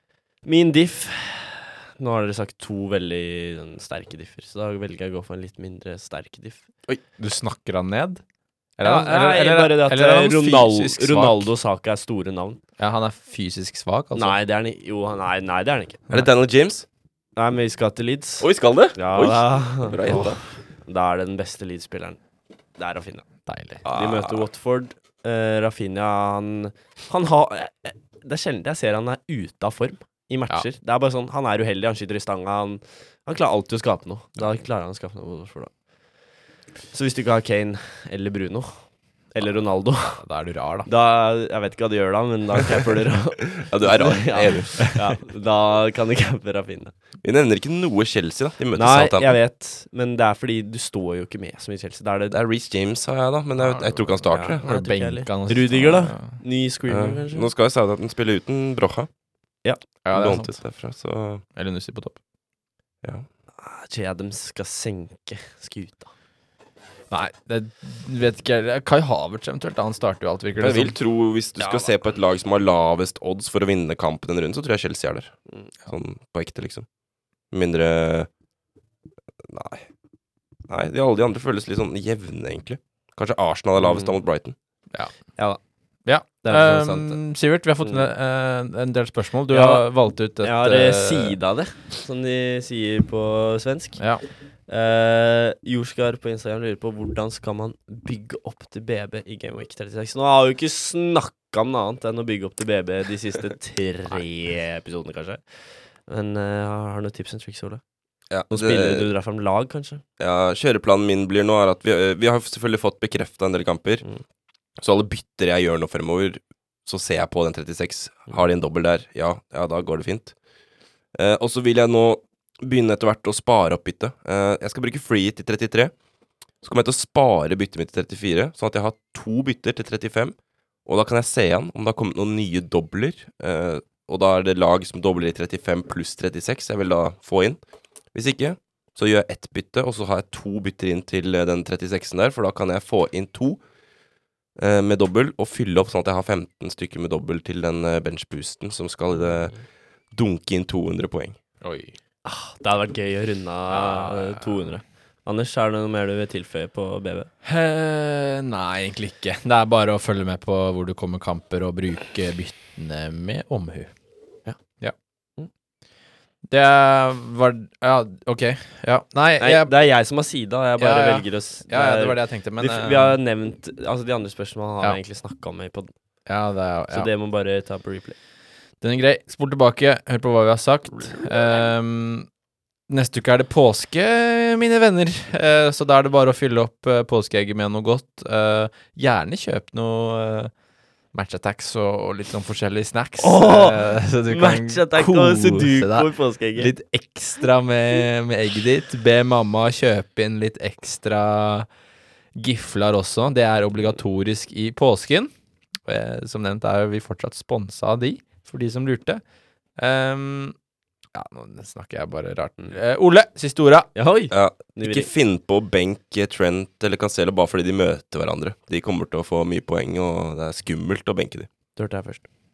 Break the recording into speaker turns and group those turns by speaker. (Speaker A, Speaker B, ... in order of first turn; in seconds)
Speaker A: 0.4-6.7, 8.8-12.6, 14.1-16.2, 17.4-22.2, 22.8-23.3, 23.9-40.2, 40.9-46.9, 48.8-52.4, 53.9-57.5, 63.6-66.1, 71.6-71.9, 83.8-84.2, 86.4-87.2, 87.8-88.1, 89.5-107.8, 108.5-110.0, 152.2-157.3, 169.4-175.9, 176.9-178.2, 193.2-196.7, 213.9-215.1, 221.8-222.3
Speaker B: 7.2-8.2, 8.8-11.5, 12.8-14.4, 23.5-23.8, 40.1-40.9, 54.6-56.4, 60.0-60.6, 61.5-62.2, 67.1-71.0, 86.1-91.4, 94.0-94.2, 151.6-152.0, 153.7-154.5, 157.4-163.9, 164.5-164.9, 166.5-169.7, 170.8-173.2, 176.3-177.1, 178.8-182.3, 182.9-190.5, 191.1-201.7, 202.4-205.3, 205.9-209.2, 209.8-210.6, 211.1-213.9
Speaker C: 16.1-16.9, 18.4-20.4, 23.9-24.5, 43.6-45.0, 47.2-49.4, 52.3-54.6, 56.9-59.1, 60.1-61.4, 70.6-76.9, 77.5-78.3, 79.4-79.9, 80.7-84.6, 108.3-109.1, 110.2-114.0, 114.8-120.3, 121.1-125.9, 126.6-130.3, 130.9-137.6, 138.1-143.6, 144.6-149.6, 150.1-151.4, 214.3-221.5